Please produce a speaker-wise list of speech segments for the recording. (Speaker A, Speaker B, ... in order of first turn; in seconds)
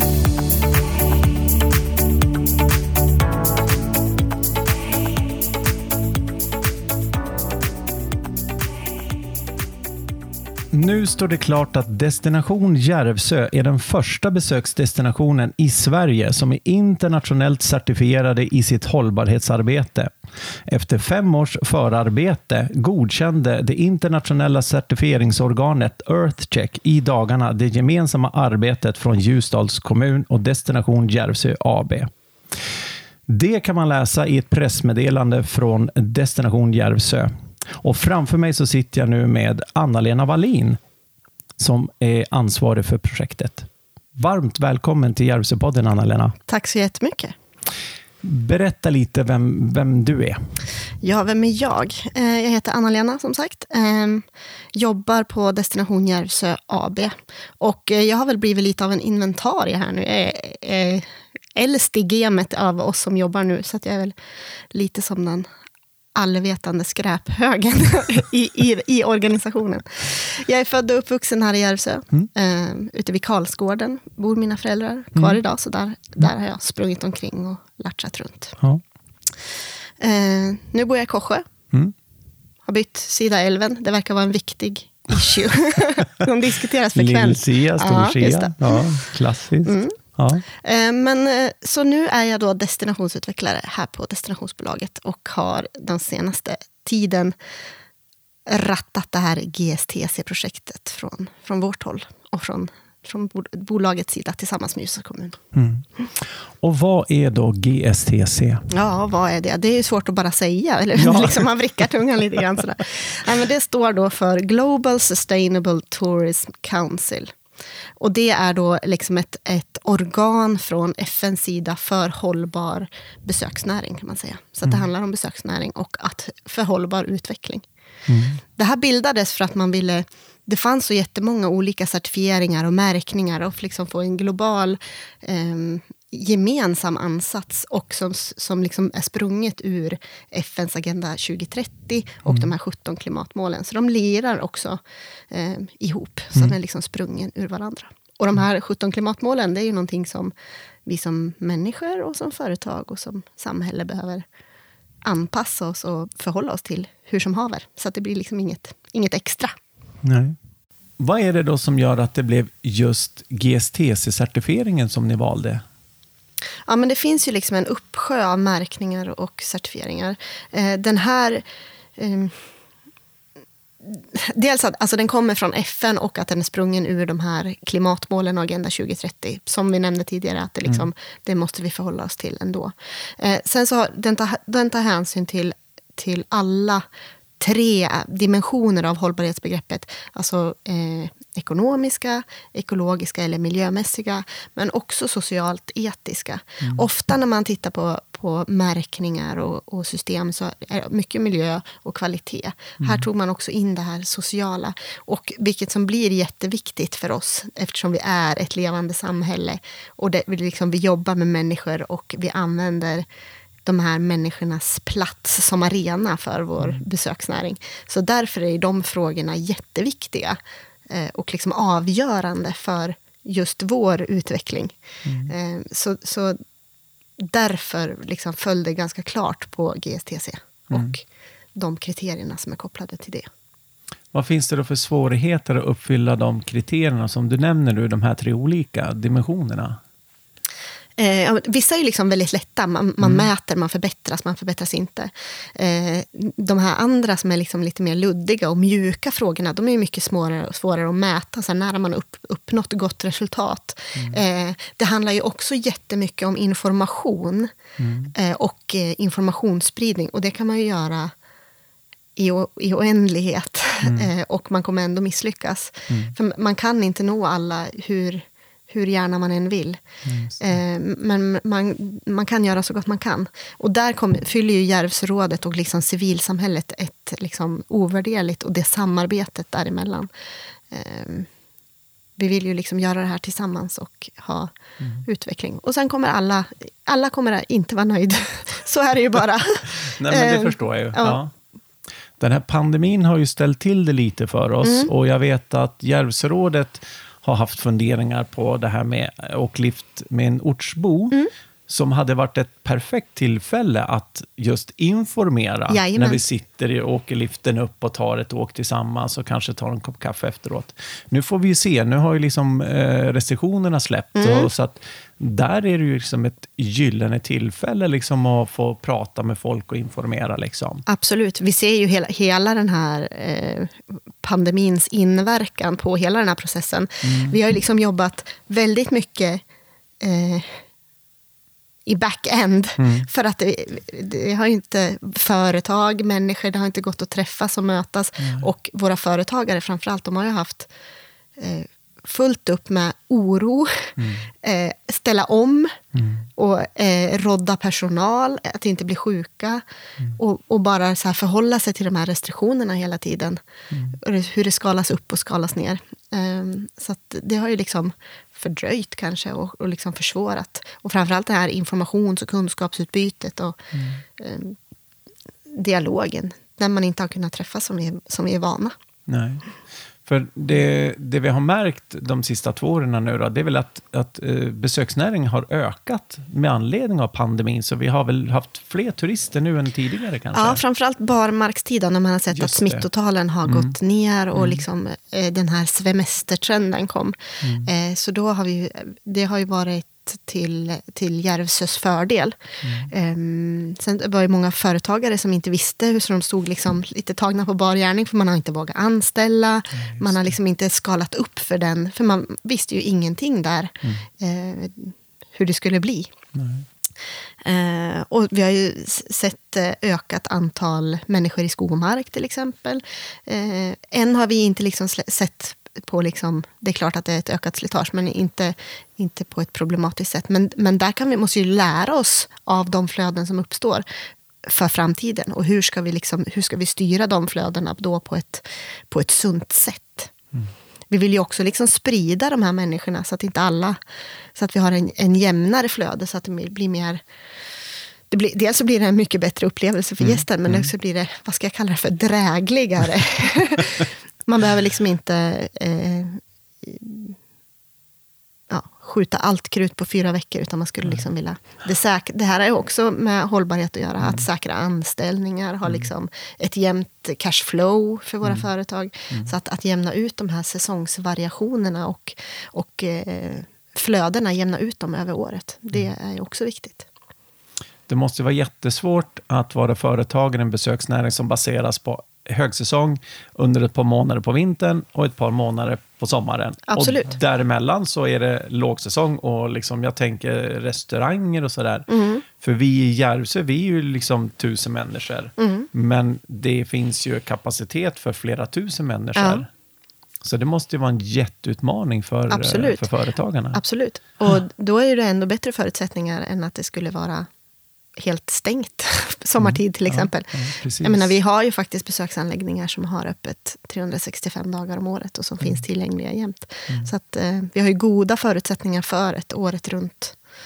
Speaker A: 10.7-20.1, 20.7-32.1, 33.3-40.8, 41.6-46.4, 48.2-50.4, 86.9-90.4, 105.5-108.7, 111.0-111.5, 128.1-128.4, 160.0-160.4, 161.0-165.6, 225.0-225.3, 234.1-239.8, 243.0-243.3, 257.8-258.1, 270.0-270.5, 289.8-291.3, 292.2-301.2, 301.7-320.8, 327.0-327.4, 332.8-333.1, 344.0-344.2, 345.9-346.2, 353.7-353.9, 363.7-364.0, 369.1-369.4, 370.0-380.6, 382.3-382.8, 383.4-383.7, 384.3-384.6, 387.4-387.7, 392.6-392.9, 399.8-400.3, 406.3-406.6, 440.0-440.7, 454.0-454.2, 467.9-489.5, 490.2-493.6, 499.4-501.1
Speaker B: 46.5-47.3, 51.0-64.1, 64.7-65.5, 66.2-78.6, 80.0-81.5, 82.7-89.1, 89.6-90.0, 90.5-97.3, 98.5-105.4, 108.7-117.3, 118.0-127.6, 128.6-150.3, 150.8-154.2, 155.0-159.5, 166.7-171.4, 171.9-172.4, 173.8-186.8, 187.4-213.1, 213.6-220.4, 220.9-226.4, 227.2-231.0, 231.6-233.3, 241.0-257.5, 258.1-261.1, 262.1-269.8, 270.4-280.1, 280.7-281.3, 282.2-291.2, 294.6-294.9, 305.7-306.2, 314.1-314.5, 320.9-329.4, 330.0-330.6, 331.9-340.7, 341.4-345.8, 346.4-349.6, 350.1-353.4, 353.9-364.6, 365.5-368.7, 380.3-406.1, 407.4-423.8, 424.4-430.1, 430.9-433.8, 434.4-437.0, 438.1-447.2, 448.5-466.9, 476.7-477.2, 481.9-482.2, 485.4-485.7, 489.1-489.4, 492.3-492.9, 493.5-497.3, 498.0-510.2